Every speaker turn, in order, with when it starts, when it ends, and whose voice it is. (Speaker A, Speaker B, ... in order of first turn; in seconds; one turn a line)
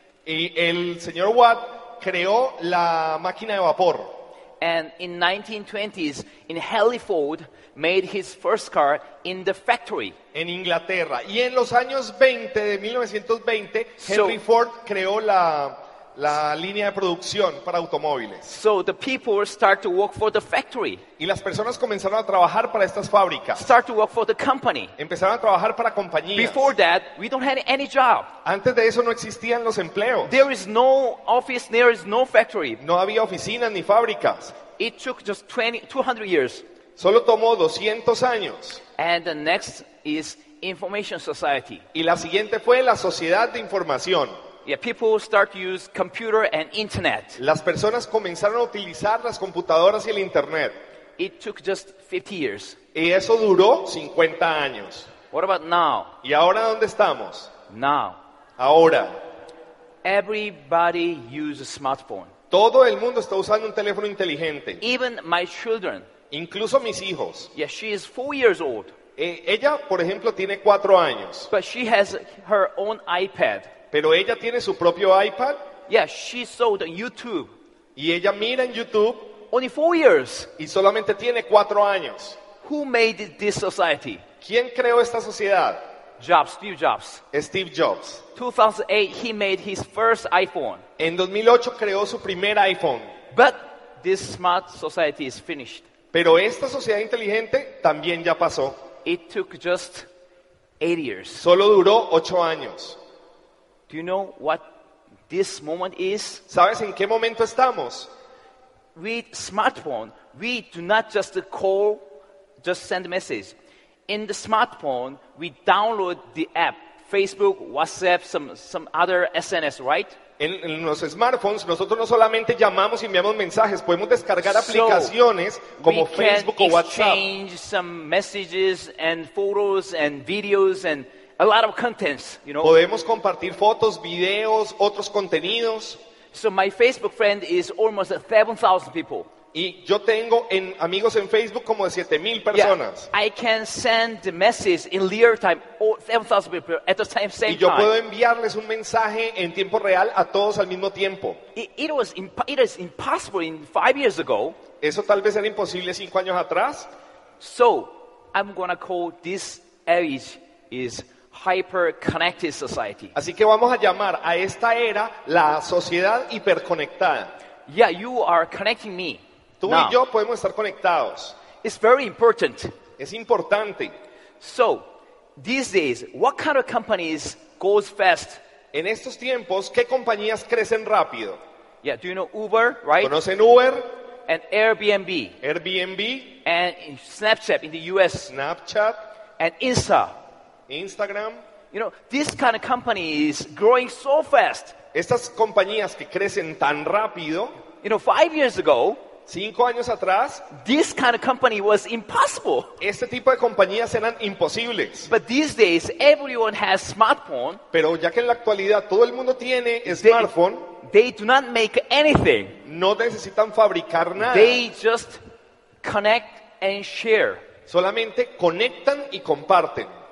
Speaker A: 0.3-4.2
Speaker B: 4.6-10.2
Speaker A: 10.3-18.5
Speaker B: 14.0-14.4
Speaker B: 18.5-21.0
Speaker A: 21.2-23.7
Speaker B: 23.6-24.9
Speaker A: 25.0-26.7
Speaker B: 26.4-28.3
Speaker A: 28.4-30.4
Speaker B: 30.3-32.8
Speaker A: 32.8-34.6
Speaker B: 34.8-36.6
Speaker A: 37.0-38.8
Speaker B: 39.0-41.9
Speaker A: 41.9-44.3
Speaker B: 44.6-47.4
Speaker A: 47.4-50.8
Speaker B: 51.2-52.8
Speaker A: 53.0-55.1
Speaker B: 55.3-56.1
Speaker A: 56.2-57.5
Speaker B: 57.7-58.2
Speaker A: 58.6-59.2
Speaker B: 60.0-62.3
Speaker A: 62.5-64.8
Speaker B: 64.8-66.1
Speaker A: 66.3-67.5
Speaker B: 67.5-69.0
Speaker A: 69.2-71.5
Speaker B: 71.5-73.7
Speaker A: 73.9-75.6
Speaker B: 75.9-77.5
Speaker A: 78.0-79.3
Speaker B: 79.5-80.5
Speaker A: 80.6-82.4
Speaker B: 82.6-84.2
Speaker A: 84.4-85.8
Speaker B: 86.2-87.2
Speaker A: 87.3-88.2
Speaker B: 88.3-90.8
Speaker A: 91.0-93.1
Speaker B: 93.3-95.8
Speaker A: 96.1-98.8
Speaker B: 99.0-100.1
Speaker B: 100.8-101.4
Speaker A: 101.4-103.0
Speaker B: 103.9-104.7
Speaker B: 105.3-106.4
Speaker A: 106.5-108.1
Speaker B: 109.0-112.0
Speaker B: 112.6-113.5
Speaker B: 114.1-120.2
Speaker A: 120.4-127.3
Speaker B: 124.5-125.1
Speaker B: 125.8-132.8
Speaker A: 132.6-136.0
Speaker B: 136.3-139.3
Speaker A: 139.5-143.1
Speaker B: 142.5-147.9
Speaker A: 147.5-151.4
Speaker B: 151.6-154.6
Speaker A: 154.8-156.9
Speaker B: 157.4-163.1
Speaker A: 163.2-167.3
Speaker B: 167.7-170.0
Speaker A: 169.6-171.4
Speaker B: 171.6-172.7
Speaker A: 173.0-173.9
Speaker B: 174.4-174.8
Speaker B: 175.4-178.4
Speaker A: 178.7-181.4
Speaker B: 181.8-183.2
Speaker A: 183.0-183.9
Speaker B: 184.3-185.4
Speaker A: 185.4-186.4
Speaker B: 186.4-188.3
Speaker A: 188.3-189.0
Speaker B: 189.4-190.1
Speaker A: 190.7-191.4
Speaker B: 191.7-194.8
Speaker A: 194.9-197.6
Speaker B: 197.8-199.0
Speaker A: 199.3-200.5
Speaker B: 200.5-202.8
Speaker A: 202.8-205.1
Speaker B: 205.1-207.6
Speaker A: 207.7-210.7
Speaker B: 209.9-212.6
Speaker A: 212.6-214.6
Speaker B: 214.2-215.2
Speaker B: 215.8-217.4
Speaker A: 217.7-219.9